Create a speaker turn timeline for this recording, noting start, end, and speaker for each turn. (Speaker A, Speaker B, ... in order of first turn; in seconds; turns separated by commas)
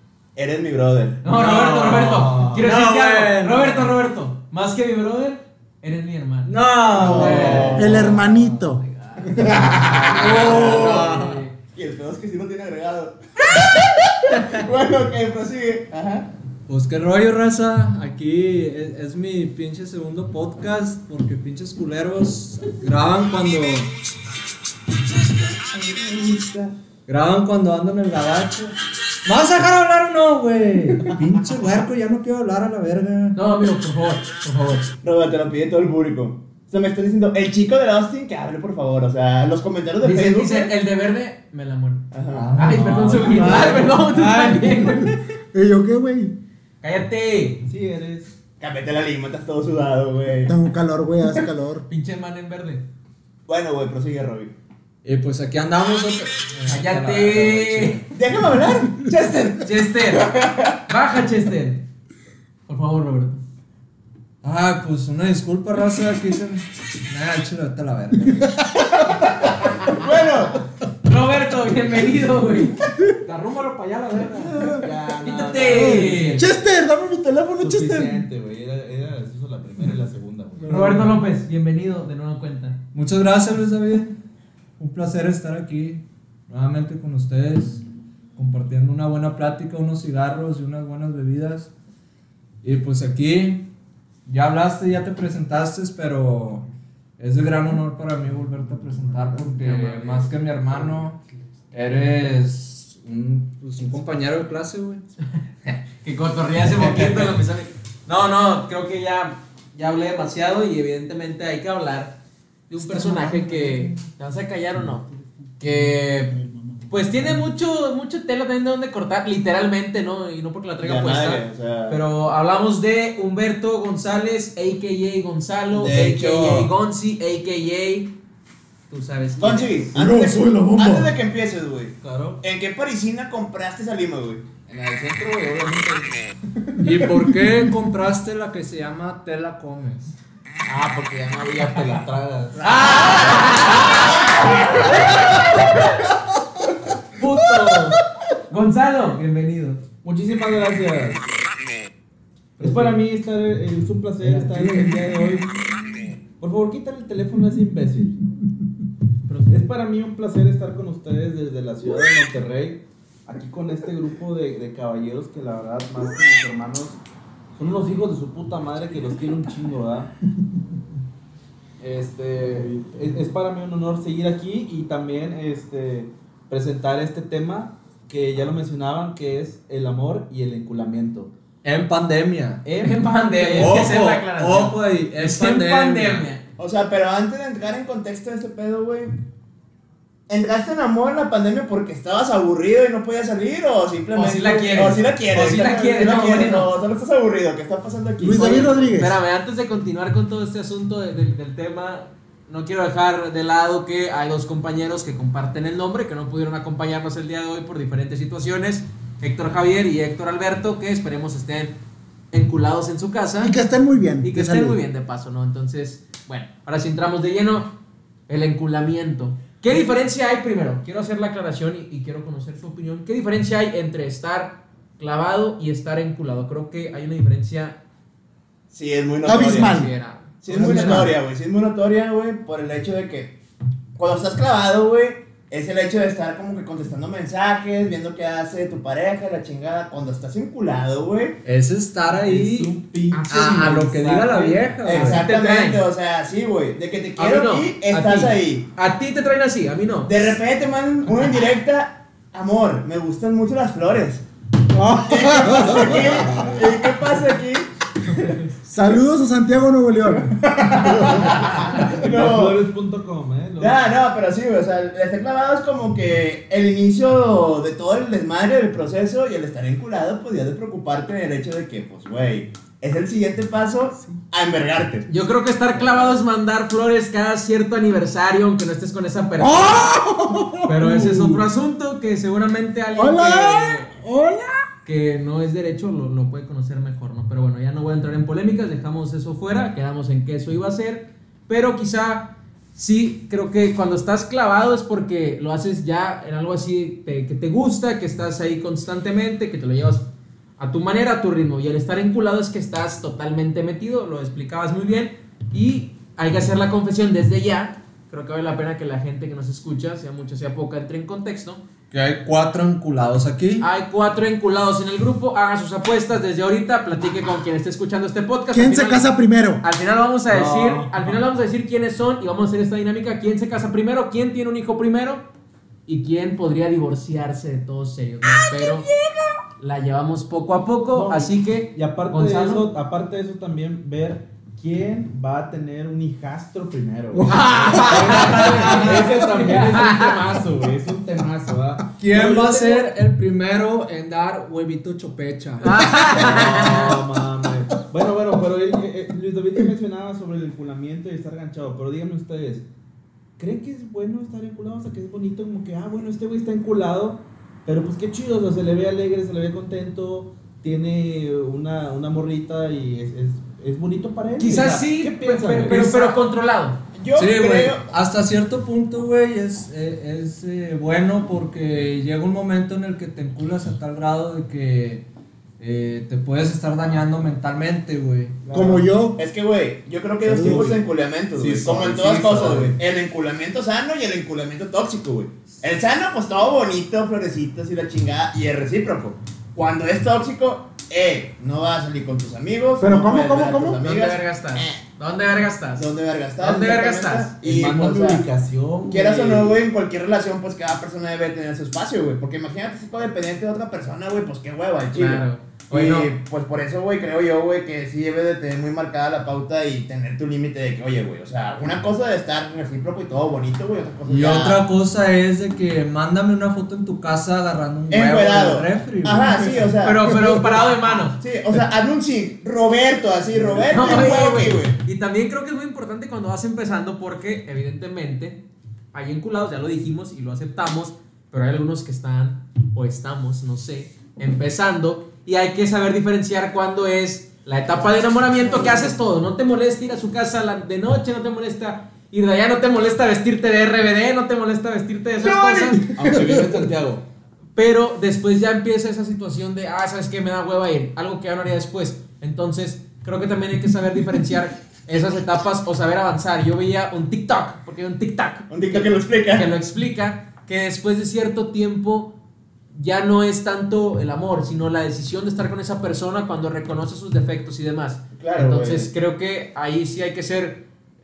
Speaker A: 0.3-1.2, Speaker B: 1.2-8.2, Speaker C: 1.3-3.9, Speaker D: 1.7-2.6, Speaker C: 6.5-7.9, Speaker D: 6.5-8.0, Speaker A: 6.9-8.1, Speaker E: 7.7-8.8, Speaker B: 8.9-11.5, Speaker C: 9.6-11.4, Speaker D: 10.1-11.1, Speaker A: 10.3-11.0, Speaker A: 11.7-16.3, Speaker C: 16.7-23.9, Speaker A: 25.7-26.7, Speaker C: 27.1-33.4, Speaker B: 33.3-34.9, Speaker A: 35.0-40.7, Speaker B: 40.0-42.0, Speaker A: 42.1-42.6, Speaker C: 42.3-43.7, Speaker B: 42.6-45.1, Speaker D: 42.7-44.0, Speaker E: 43.3-46.4, Speaker B: 46.8-47.6, Speaker D: 47.6-48.3, Speaker A: 48.6-50.5, Speaker E: 50.4-51.9, Speaker B: 51.9-52.8, Speaker A: 53.5-54.5, Speaker C: 55.0-58.1, Speaker B: 56.6-58.0, Speaker A: 58.1-60.8, Speaker B: 59.6-60.3, Speaker B: 60.9-61.8, Speaker B: 62.7-63.4, Speaker C: 64.4-68.5, Speaker E: 68.4-69.2, Speaker A: 69.1-70.6, Speaker B: 71.0-76.5, Speaker E: 74.4-74.9, Speaker D: 74.7-76.6, Speaker E: 75.7-78.2, Speaker D: 77.6-81.0, Speaker B: 80.7-82.8, Speaker E: 80.7-81.0, Speaker C: 82.9-84.1, Speaker C: 84.8-87.8, Speaker C: 88.3-91.7, Speaker C: 92.6-93.7, Speaker C: 94.2-96.7, Speaker C: 97.2-101.2, Speaker B: 99.7-100.2, Speaker C: 101.7-105.0, Speaker B: 105.7-112.2, Speaker C: 106.6-107.3, Speaker B: 112.7-115.0, Speaker E: 112.8-114.0, Speaker E: 115.1-117.3, Speaker B: 115.6-116.3, Speaker B: 116.9-128.1, Speaker A: 120.8-122.0, Speaker A: 125.7-126.7, Speaker B: 128.9-129.8, Speaker A: 129.4-134.6, Speaker E: 129.9-131.2, Speaker D: 132.0-132.4, Speaker D: 134.7-136.2, Speaker C: 136.8-140.1, Speaker D: 140.7-142.7, Speaker B: 142.6-145.9, Speaker B: 147.2-148.0, Speaker B: 148.5-149.8, Speaker D: 150.0-151.2, Speaker D: 152.6-155.5, Speaker B: 152.6-152.9, Speaker D: 156.4-158.2, Speaker B: 159.3-159.6, Speaker D: 159.5-167.0, Speaker D: 167.5-170.1, Speaker D: 171.8-181.3, Speaker C: 181.6-182.6, Speaker D: 182.6-184.0, Speaker B: 182.8-186.4, Speaker C: 183.6-186.2, Speaker A: 186.6-189.1, Speaker A: 190.3-198.9, Speaker B: 194.1-196.7, Speaker E: 198.2-199.2, Speaker B: 198.9-211.7, Speaker B: 212.3-213.6, Speaker E: 213.4-214.8, Speaker B: 214.2-217.7, Speaker B: 218.3-227.8, Speaker A: 228.7-229.8, Speaker E: 229.2-229.9, Speaker B: 229.3-231.0, Speaker A: 230.4-233.3, Speaker E: 230.5-231.1, Speaker A: 234.0-241.4, Speaker C: 241.4-242.7, Speaker D: 242.1-244.7, Speaker B: 243.1-243.7, Speaker C: 243.3-245.2, Speaker A: 244.8-248.7, Speaker B: 244.9-245.8, Speaker B: 247.2-250.3, Speaker A: 250.1-254.2, Speaker E: 254.7-256.5, Speaker A: 254.9-257.7, Speaker D: 255.7-256.8, Speaker E: 258.6-261.4, Speaker A: 260.5-262.6, Speaker D: 261.2-263.9, Speaker A: 263.6-275.1, Speaker B: 275.1-279.9, Speaker E: 279.4-281.4, Speaker B: 280.6-283.9, Speaker E: 282.9-284.6, Speaker B: 284.8-300.1, Speaker B: 300.6-311.6, Speaker C: 311.9-313.6, Speaker B: 313.6-319.1, Speaker E: 318.5-319.6, Speaker B: 319.6-325.2, Speaker D: 320.3-321.2, Speaker B: 325.9-328.9, Speaker B: 329.6-332.7, Speaker D: 330.9-342.9, Speaker B: 337.2-340.2, Speaker C: 342.0-346.3, Speaker B: 345.6-347.0, Speaker D: 346.1-352.6, Speaker D: 353.4-366.1, Speaker B: 364.4-366.8, Speaker A: 365.7-366.1, Speaker A: 366.9-367.8, Speaker C: 367.1-375.0, Speaker C: 375.6-378.6, Speaker D: 378.4-378.8, Speaker E: 378.5-379.2, Speaker A: 379.1-394.8, Speaker E: 380.2-380.8, Speaker D: 380.4-380.7, Speaker D: 381.3-382.7, Speaker C: 382.1-382.7, Speaker E: 392.8-393.8, Speaker B: 393.8-397.4, Speaker A: 395.8-398.3, Speaker D: 397.4-399.6, Speaker A: 398.8-414.6, Speaker B: 404.9-406.1, Speaker C: 414.1-419.6, Speaker A: 417.9-424.8, Speaker B: 419.8-421.2, Speaker E: 420.0-420.6, Speaker B: 423.6-428.4, Speaker B: 428.9-445.9, Speaker E: 445.2-446.5, Speaker D: 445.6-447.0, Speaker B: 447.6-462.1, Speaker A: 458.5-459.5, Speaker B: 462.7-470.6, Speaker A: 468.2-468.9